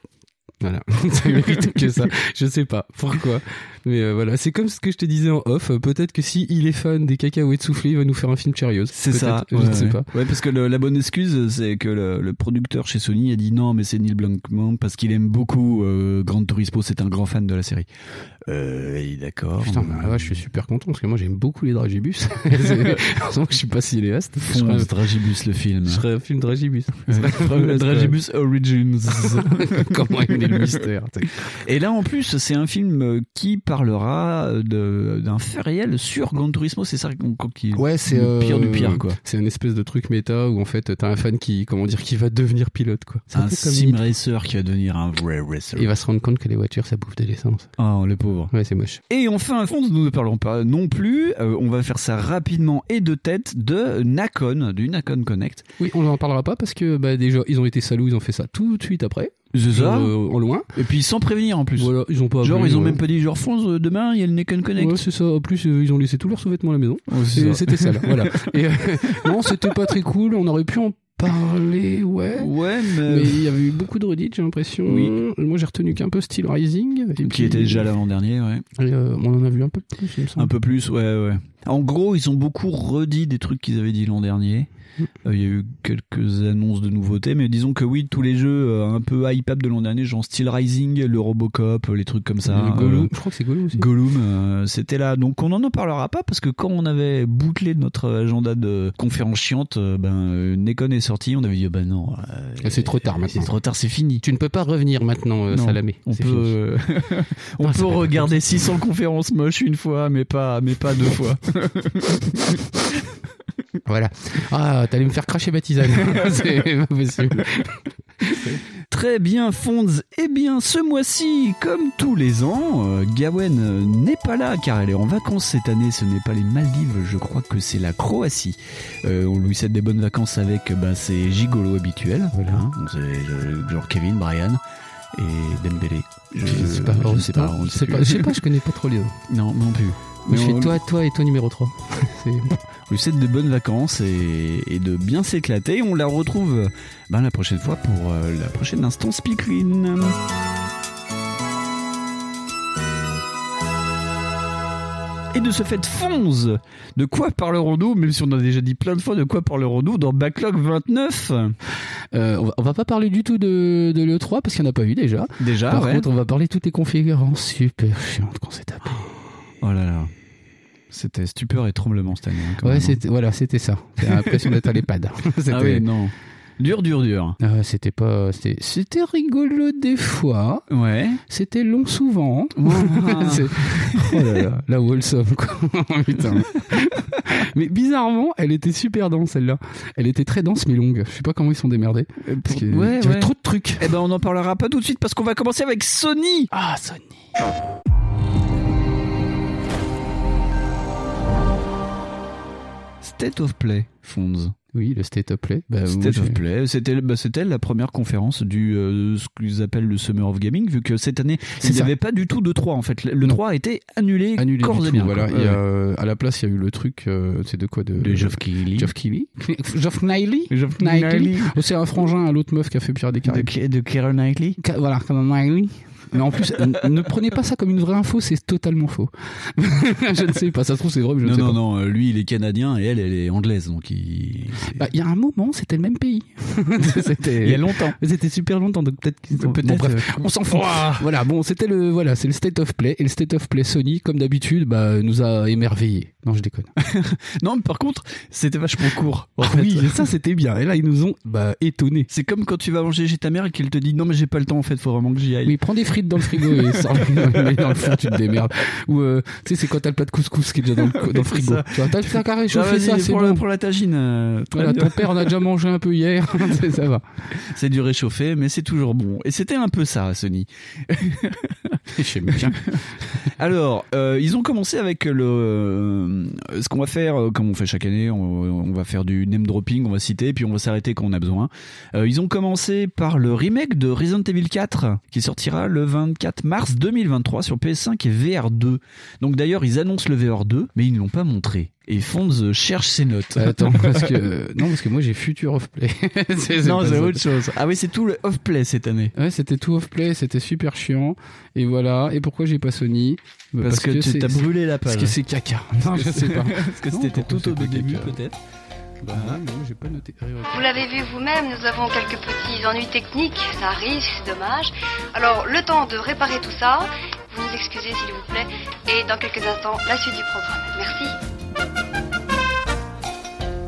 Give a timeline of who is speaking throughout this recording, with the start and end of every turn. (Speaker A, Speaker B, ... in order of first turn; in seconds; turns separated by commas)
Speaker A: 0.6-10.1, Speaker B: 1.3-2.1, Speaker B: 8.9-17.9, Speaker B: 18.4-20.4, Speaker A: 19.6-24.9, Speaker B: 22.6-23.0, Speaker B: 24.5-26.0, Speaker A: 25.8-28.1, Speaker B: 27.1-30.8, Speaker A: 29.2-31.6, Speaker B: 31.4-39.2, Speaker A: 37.7-44.0, Speaker B: 43.3-45.9, Speaker A: 45.7-47.7, Speaker B: 47.8-48.5, Speaker A: 48.5-49.0, Speaker B: 49.1-55.6, Speaker A: 55.8-60.7, Speaker B: 59.5-60.1, Speaker B: 60.7-65.0, Speaker A: 61.8-63.0, Speaker A: 64.8-72.5, Speaker B: 67.1-69.9, Speaker B: 72.4-73.5, Speaker A: 73.0-77.9, Speaker B: 74.9-75.1, Speaker B: 77.2-78.7, Speaker A: 78.8-80.5, Speaker B: 80.4-84.7, Speaker B: 85.2-93.1, Speaker A: 92.4-93.9, Speaker B: 93.7-104.2, Speaker A: 102.6-103.5, Speaker A: 104.2-106.6, Speaker B: 105.5-113.0, Speaker A: 107.6-108.3, Speaker A: 113.8-118.6, Speaker B: 116.0-116.4, Speaker B: 118.8-134.6, Speaker A: 132.3-132.7, Speaker B: 135.1-138.4, Speaker A: 136.4-139.1, Speaker B: 139.3-140.8, Speaker A: 140.2-142.6, Speaker B: 142.9-150.2, Speaker B: 155.3-161.6, Speaker A: 162.1-169.1, Speaker B: 165.4-166.1, Speaker B: 169.6-170.1, Speaker B: 170.9-173.0, Speaker A: 172.6-175.9, Speaker B: 174.0-174.8, Speaker B: 175.5-177.4, Speaker A: 177.4-180.7, Speaker B: 180.7-181.2, Speaker A: 181.3-193.9, Speaker B: 182.6-184.4, Speaker B: 186.4-186.8, Speaker B: 192.2-196.5, Speaker A: 196.5-197.3, Speaker B: 203.0-204.5, Speaker A: 204.7-206.4, Speaker B: 205.8-215.6, Speaker A: 211.6-211.9, Speaker A: 214.4-223.5, Speaker B: 218.0-218.9, Speaker B: 220.5-221.6, Speaker B: 223.2-224.6, Speaker A: 224.6-231.6, Speaker B: 231.2-234.9, Speaker A: 234.7-246.7, Speaker B: 237.4-238.0, Speaker B: 239.4-241.1, Speaker B: 246.8-250.1, Speaker A: 249.4-252.1, Speaker B: 252.1-255.6, Speaker A: 255.4-263.4, Speaker B: 256.2-258.4, Speaker B: 260.7-265.3, Speaker A: 264.5-267.1, Speaker B: 267.3-294.2, Speaker A: 271.9-272.8, Speaker A: 293.4-297.2, Speaker B: 296.6-299.1, Speaker A: 299.1-308.2, Speaker B: 303.6-305.2, Speaker B: 305.8-308.4, Speaker A: 309.0-310.8, Speaker B: 309.1-309.4, Speaker C: 310.5-321.1